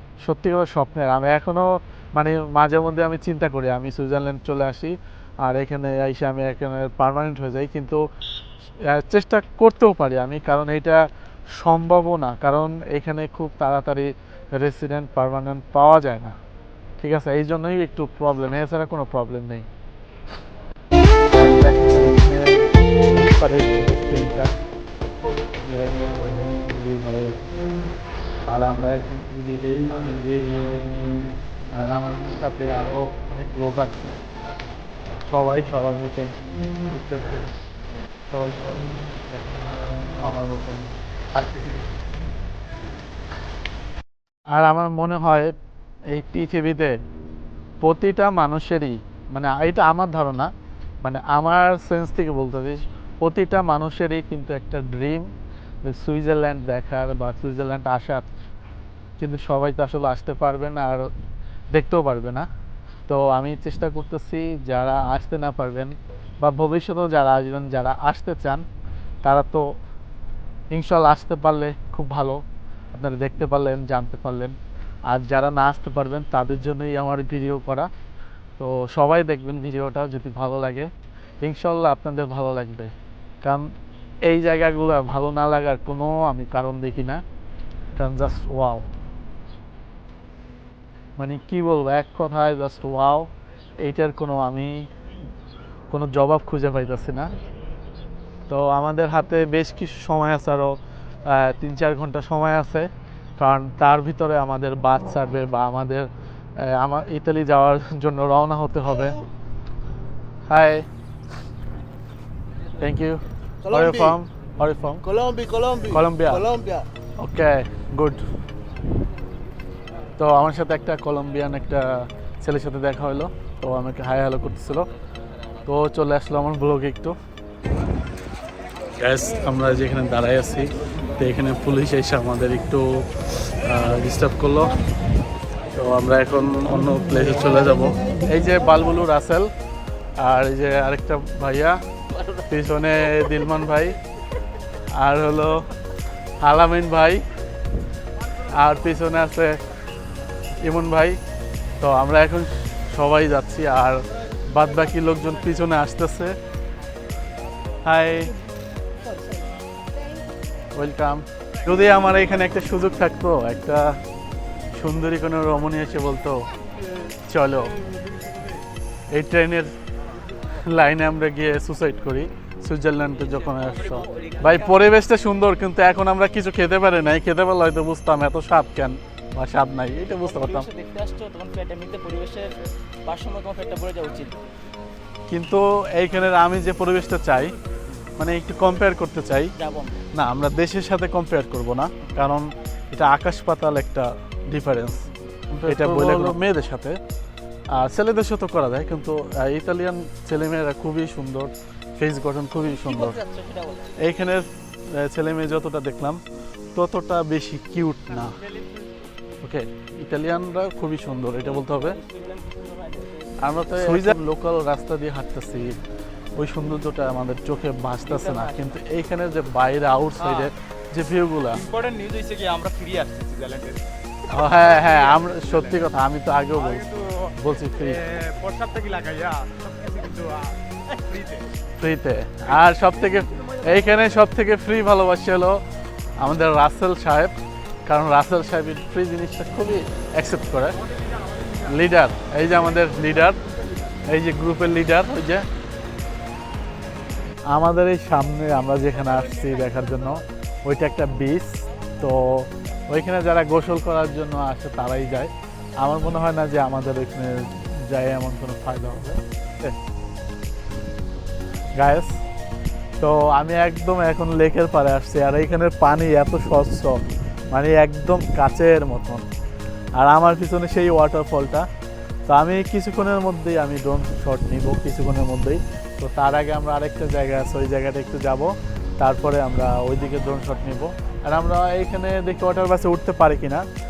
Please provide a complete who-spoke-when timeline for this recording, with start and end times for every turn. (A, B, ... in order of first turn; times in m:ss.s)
0:00.2-0:08.0 A
0:08.8-0:16.4 A
0:17.0-0:19.7 A
0:21.3-0:24.6 A
0:25.6-0:27.4 A
0:28.5-0:31.2 A
0:31.7-0:34.1 A
0:35.3-0:37.5 A
0:38.3-0:41.8 A
0:44.5-0:45.5 A
0:46.1-0:47.0 A
0:47.8-0:50.5 A
0:51.0-0:55.3 A
0:55.8-0:58.3 A
0:59.2-1:01.1 A
1:01.7-1:02.5 A
1:03.1-1:08.6 A
1:09.2-1:09.7 A
1:10.7-1:12.4 A
1:12.9-1:14.6 A
1:15.1-1:17.9 A
1:18.6-1:20.9 A
1:21.4-1:23.7 A
1:24.2-1:27.2 A
1:28.0-1:28.9 A
1:31.2-1:34.9 A
1:35.9-1:37.3 A
1:38.5-1:49.2 A
1:50.5-1:50.9 A
1:52.8-1:55.1 A
1:53.6-1:54.1 B
1:55.1-1:56.9 B
1:55.9-1:56.5 A
1:57.2-1:58.2 A
2:00.2-2:04.9 A
2:05.6-2:07.2 A
2:09.0-2:12.9 A
2:13.5-2:14.8 A
2:15.7-2:19.5 A
2:20.2-2:21.8 A
2:22.4-2:24.0 A
2:25.0-2:25.6 A
2:26.4-2:27.2 A
2:28.5-2:29.6 A
2:30.6-2:31.2 A
2:31.8-2:36.4 A
2:37.8-2:38.3 A
2:40.7-2:43.9 A
2:44.7-2:46.4 A
2:47.3-2:47.7 A
2:49.1-2:49.7 A
2:50.6-3:00.7 A
2:53.3-2:54.9 B
3:00.2-3:04.4 B
3:05.3-3:07.5 A
3:08.2-3:09.5 A
3:09.6-3:10.0 B
3:10.1-3:17.0 A
3:17.8-3:23.2 A
3:22.8-3:24.0 B
3:24.0-3:26.2 A
3:26.8-3:28.4 A
3:29.4-3:32.0 A
3:31.4-3:33.9 B
3:33.4-3:35.8 A
3:36.4-3:41.7 A
3:38.1-3:38.8 B
3:41.7-3:43.8 C
3:41.9-3:42.8 B
3:44.3-3:48.0 A
3:44.6-3:45.8 C
3:46.6-3:47.2 C
3:47.8-3:51.5 C
3:51.8-3:55.6 A
3:56.2-4:00.8 A
4:01.6-4:03.4 A
4:04.1-4:05.5 A
4:07.5-4:19.8 A
4:21.8-4:22.1 A
4:23.0-4:29.2 A
4:30.0-4:31.7 A
4:32.3-4:43.6 A